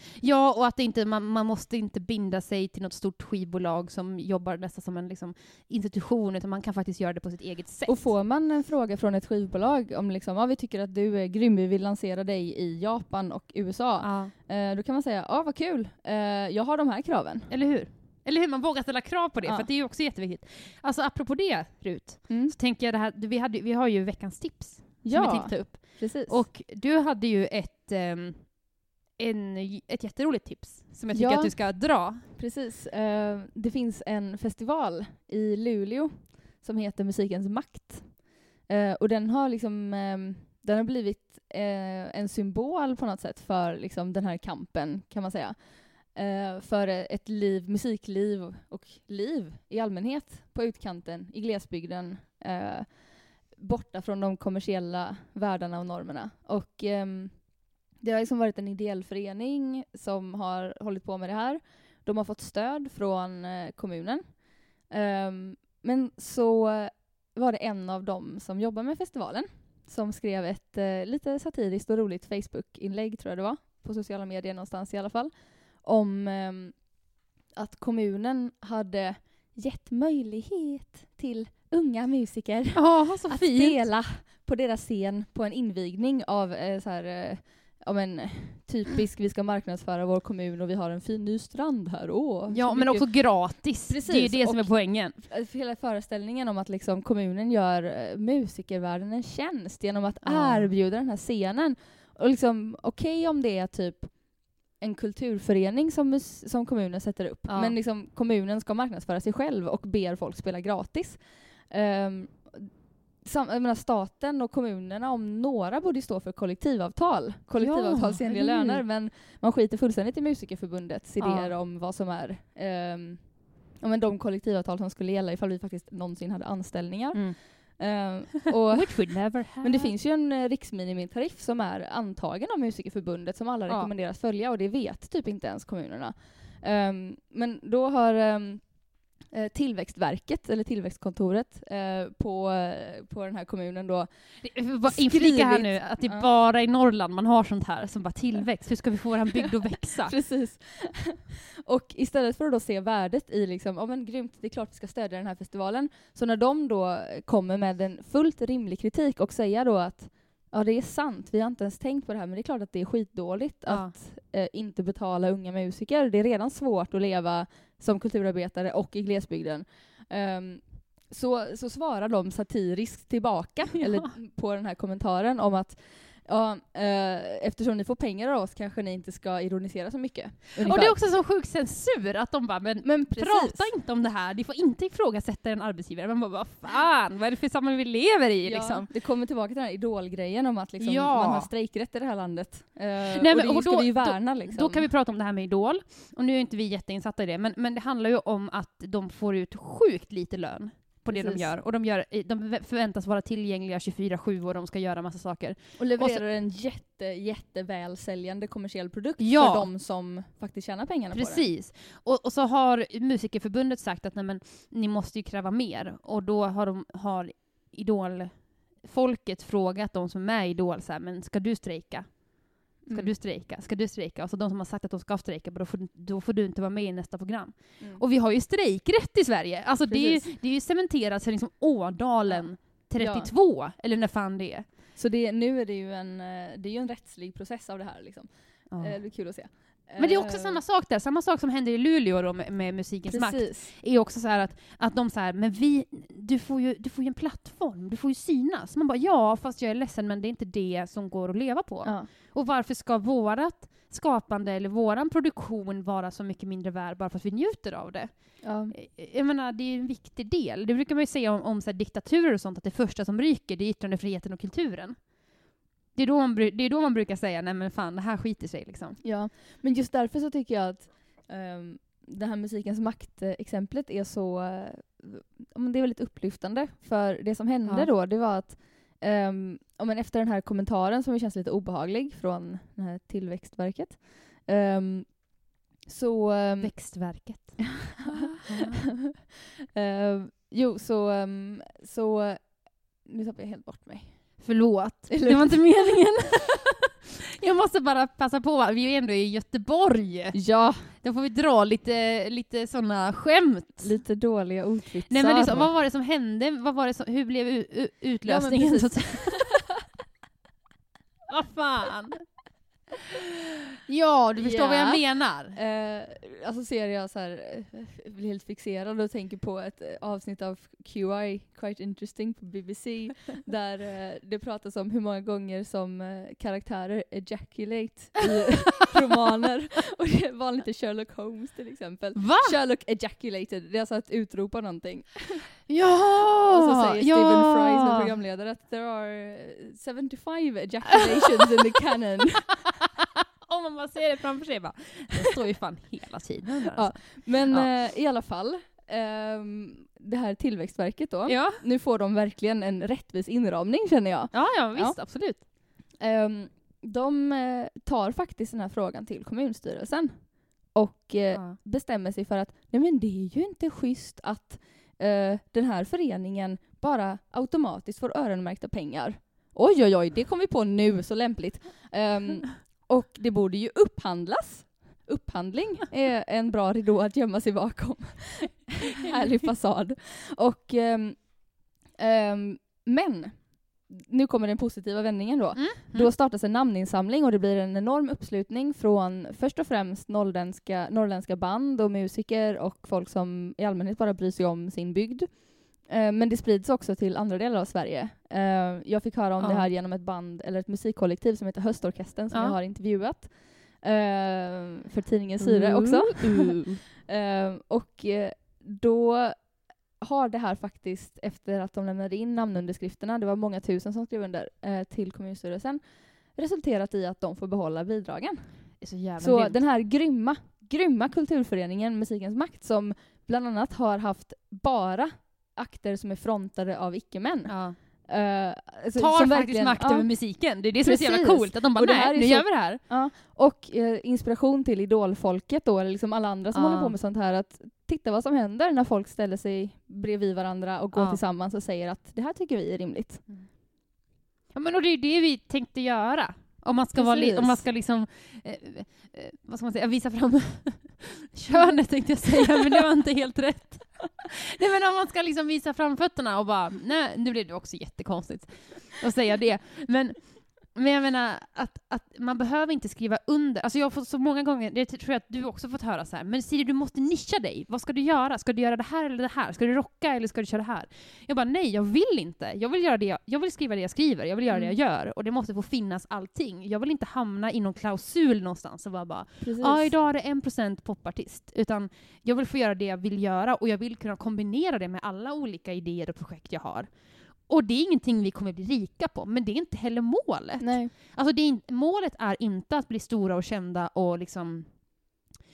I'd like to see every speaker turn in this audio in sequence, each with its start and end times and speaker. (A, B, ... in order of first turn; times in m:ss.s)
0:00.2-0:08.2 A
0:07.9-0:17.5 B
0:14.0-0:14.3 A
0:17.5-0:32.2 A
0:19.4-0:19.7 B
0:22.3-0:22.6 B
0:25.0-0:26.4 B
0:31.1-2:26.3 B
1:22.8-1:23.8 A
1:32.5-1:35.2 A
1:40.2-1:40.7 A
1:47.5-1:47.8 A
1:57.6-1:58.8 A
2:01.2-2:01.6 A
2:07.1-2:07.9 A
2:08.7-2:09.9 A
2:24.4-2:30.2 A
2:29.8-3:01.0 B
2:43.7-2:44.0 A
2:53.9-2:54.1 A
3:00.6-3:08.9 A
3:02.8-3:03.7 B
3:08.4-3:14.9 B
3:10.8-3:11.5 A
3:13.1-3:26.2 A
3:21.1-3:21.5 B
3:25.8-3:31.5 B
3:29.2-3:29.7 A
3:31.1-3:54.7 A
3:42.8-3:43.1 B
3:47.8-3:48.0 B
3:49.9-3:50.3 B
3:52.3-3:53.3 B
3:55.0-4:00.6 B
3:58.7-4:29.0 A
4:03.1-4:03.7 B
4:11.8-4:12.1 B
4:18.4-4:18.8 B
4:29.0-4:47.4 B
4:37.6-4:37.9 A
4:46.6-4:48.8 A
4:48.0-4:48.5 B
4:49.7-4:54.5 B
4:54.4-4:56.8 A
4:55.1-4:56.4 B
4:57.4-5:04.0 A
5:00.3-5:00.9 B
5:03.8-5:05.7 B
5:05.1-5:09.5 A
5:08.2-5:09.6 B
5:11.3-5:12.3 A
5:13.9-5:15.6 A
5:14.4-5:35.7 B
5:32.2-5:32.6 A
5:35.7-5:38.1 A
5:36.5-5:42.7 B
5:43.4-5:47.7 A
5:46.7-7:23.3 B
5:51.3-5:51.6 A
5:54.3-5:55.4 A
6:25.6-6:26.1 A
6:39.4-6:39.7 A
6:42.3-6:42.6 A
6:45.4-6:46.8 A
6:58.8-6:59.6 A
7:07.5-7:08.0 A
7:09.0-7:12.8 A
7:16.5-7:17.0 A
7:20.9-7:21.2 A
7:23.3-7:23.5 A
7:24.5-8:15.0 A
7:27.0-7:27.7 B
7:31.5-7:32.3 B
7:54.5-7:54.8 B
7:59.4-8:00.0 B
8:10.6-8:10.9 B